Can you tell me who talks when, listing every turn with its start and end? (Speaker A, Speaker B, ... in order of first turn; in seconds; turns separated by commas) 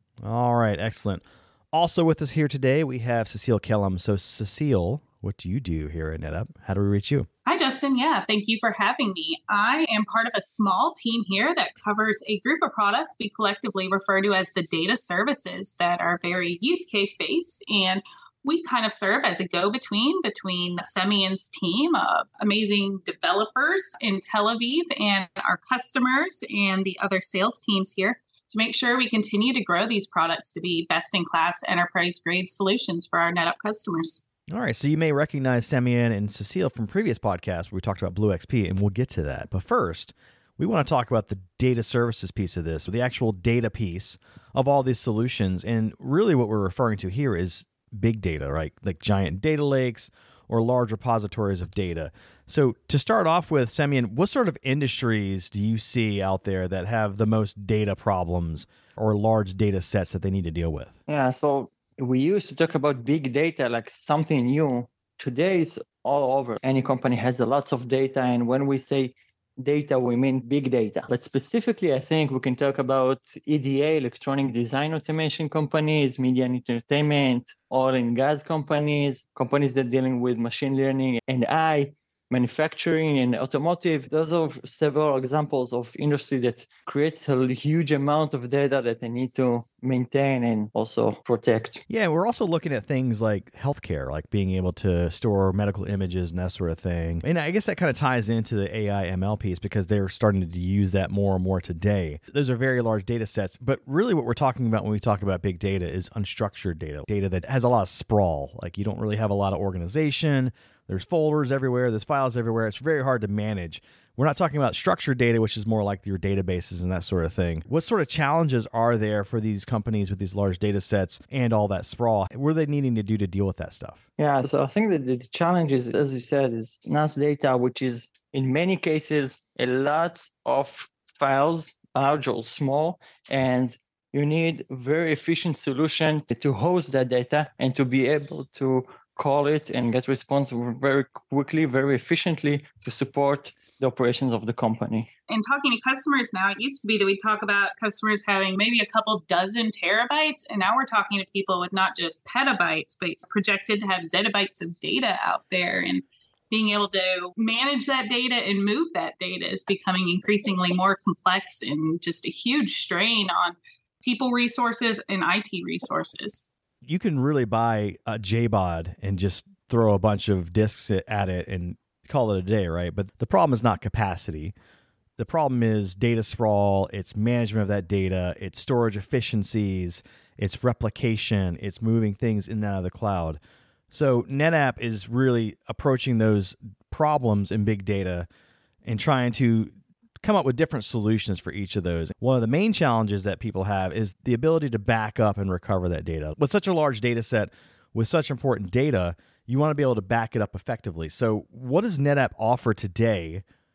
Speaker A: 0.2-7.3, Speaker B: 7.5-34.2, Speaker A: 34.5-60.9, Speaker C: 61.1-91.8, Speaker A: 91.9-124.0, Speaker C: 124.2-145.1, Speaker B: 145.3-166.4, Speaker A: 166.8-174.5, Speaker A: 175.2-183.4, Speaker A: 183.9-188.3, Speaker A: 188.8-203.4